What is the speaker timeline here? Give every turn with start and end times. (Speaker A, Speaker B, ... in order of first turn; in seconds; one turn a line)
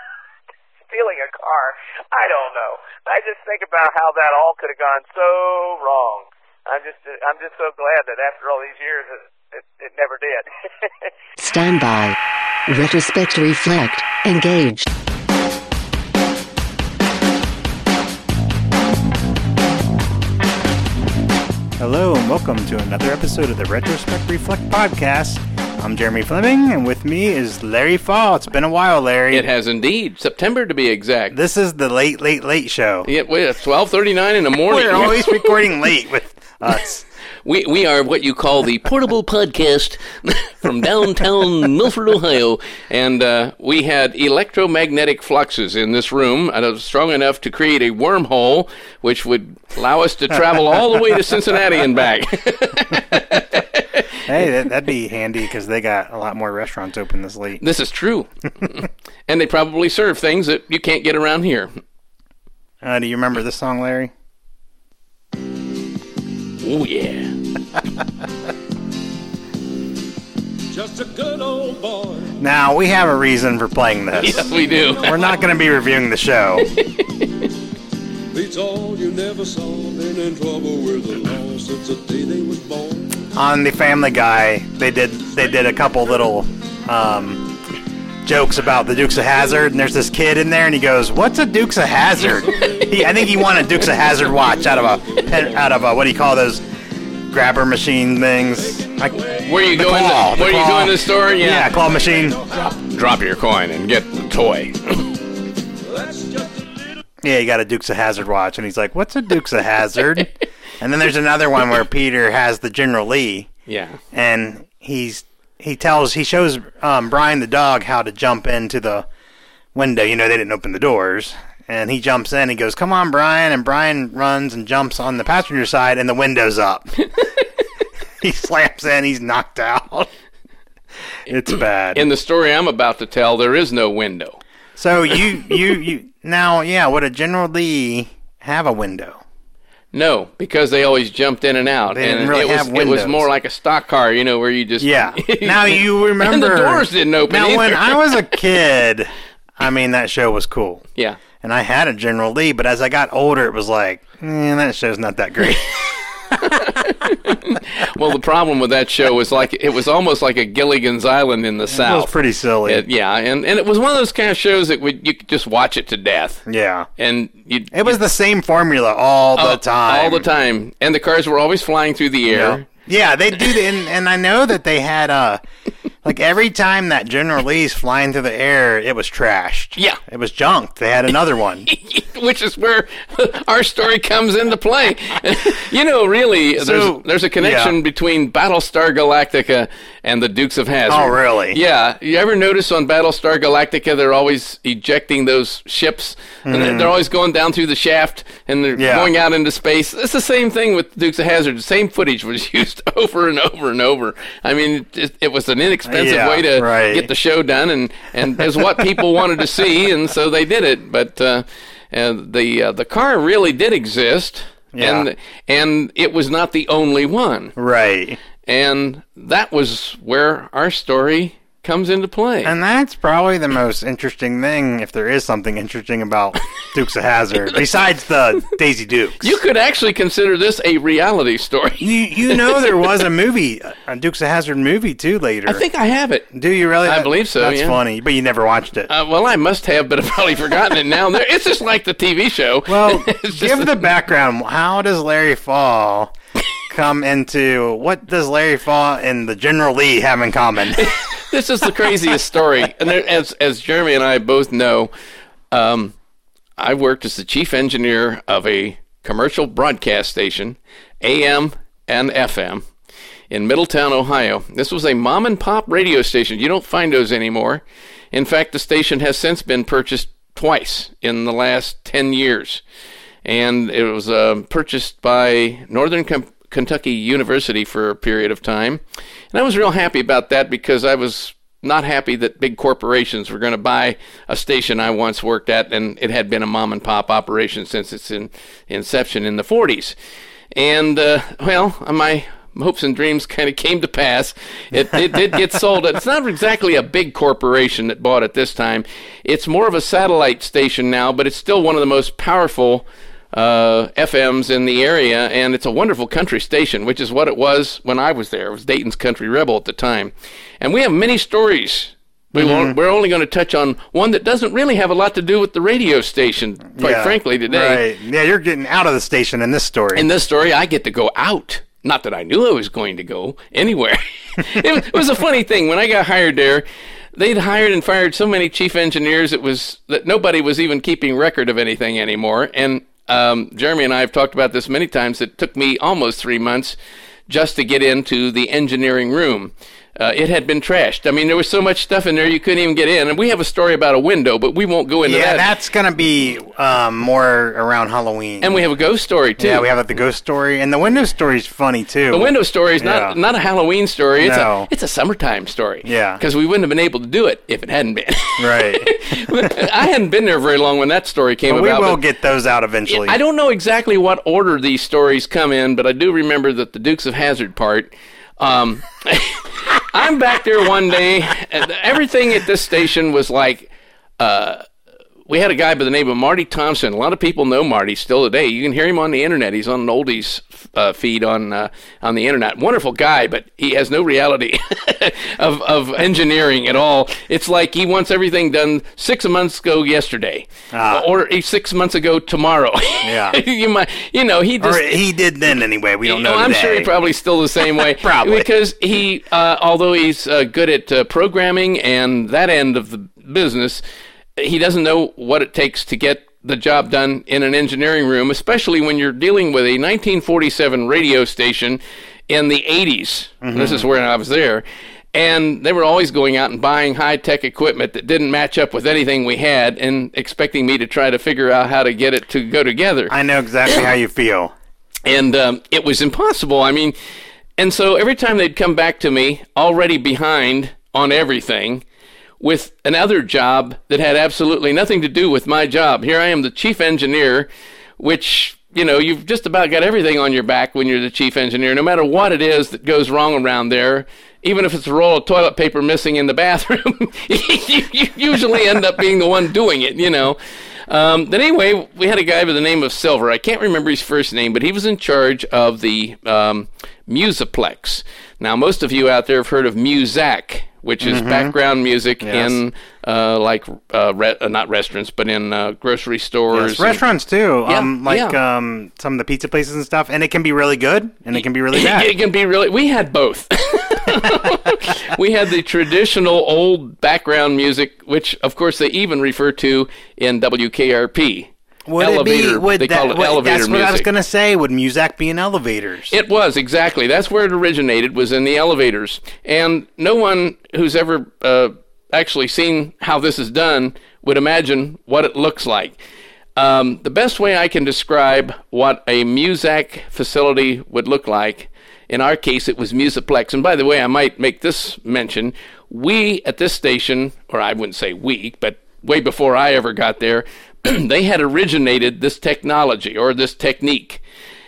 Speaker A: 0.9-10.4
Speaker B: 11.4-14.9
Speaker C: 21.8-29.5
Speaker D: 29.3-31.4
Speaker C: 31.3-33.1
Speaker D: 33.0-35.6
Speaker C: 34.7-37.0
Speaker D: 37.4-54.2
Speaker C: 54.2-57.6
Speaker D: 57.6-61.7
Speaker C: 62.8-64.1
Speaker D: 66.6-67.3
Speaker E: 70.7-72.3
Speaker C: 72.4-76.7
Speaker D: 74.2-75.1
Speaker E: 74.6-75.4
Speaker D: 76.7-77.3
Speaker E: 78.3-83.1
Speaker C: 83.3-87.5
Speaker C: 88.2-96.6
Speaker E: 92.2-95.6
Speaker C: 97.3-102.4
Speaker E: 98.7-99.4
Speaker D: 99.5-101.7
Speaker E: 102.1-102.6
Speaker D: 102.8-105.1
Speaker E: 105.8-106.8
Speaker C: 107.2-113.5
Speaker D: 113.7-114.0
Speaker C: 114.1-119.1
Speaker C: 119.7-127.0
Speaker C: 128.2-130.1
Speaker C: 131.3-132.1
Speaker D: 131.9-134.4
Speaker C: 134.8-139.2
Speaker D: 139.9-148.2
Speaker C: 141.9-143.3
Speaker C: 144.8-150.8
Speaker C: 151.4-157.1
Speaker D: 156.4-162.1
Speaker C: 161.7-162.8
Speaker D: 162.6-166.4
Speaker C: 166.4-166.9
Speaker D: 167.0-168.0
Speaker C: 167.7-170.3
Speaker D: 169.3-172.7
Speaker C: 172.3-175.4
Speaker C: 176.0-181.7
Speaker D: 181.7-217.5
Speaker C: 186.6-187.8
Speaker C: 190.9-191.6
Speaker C: 196.4-196.9
Speaker C: 198.8-199.1
Speaker C: 205.8-207.1
Speaker C: 214.7-215.1
Speaker C: 217.6-218.2
Speaker D: 218.4-222.5
Speaker C: 222.4-229.3
Speaker D: 229.2-232.6
Speaker C: 231.8-235.6
Speaker D: 235.4-236.3
Speaker C: 236.3-238.9
Speaker D: 236.8-237.8
Speaker D: 238.9-243.8
Speaker C: 242.7-246.1
Speaker C: 246.7-250.9
Speaker D: 250.8-254.9
Speaker D: 255.5-255.9
Speaker D: 256.6-262.6
Speaker D: 263.3-272.6
Speaker D: 273.2-278.8
Speaker D: 279.3-289.9
Speaker D: 290.5-317.8
Speaker C: 312.3-312.7
Speaker C: 316.8-320.1
Speaker D: 319.9-336.8
Speaker D: 337.3-345.5
Speaker C: 345.0-348.6
Speaker D: 348.4-349.7
Speaker C: 349.4-353.2
Speaker D: 352.1-362.0
Speaker C: 354.2-354.7
Speaker C: 355.8-356.2
Speaker C: 358.4-359.5
Speaker C: 361.5-363.2
Speaker D: 362.9-374.6
Speaker D: 375.3-395.0
Speaker C: 390.7-391.1
Speaker C: 393.0-393.4
Speaker C: 394.6-396.9
Speaker D: 396.0-403.8
Speaker C: 397.6-398.5
Speaker D: 404.4-423.1
Speaker C: 413.4-413.9
Speaker C: 423.1-424.5
Speaker D: 425.1-426.9
Speaker D: 427.6-431.8
Speaker D: 432.4-467.0
Speaker C: 461.0-461.5
Speaker C: 462.2-462.6
Speaker C: 466.5-472.1
Speaker D: 467.6-468.4
Speaker D: 471.7-484.1
Speaker C: 481.9-486.1
Speaker D: 486.1-495.9
Speaker D: 496.6-514.2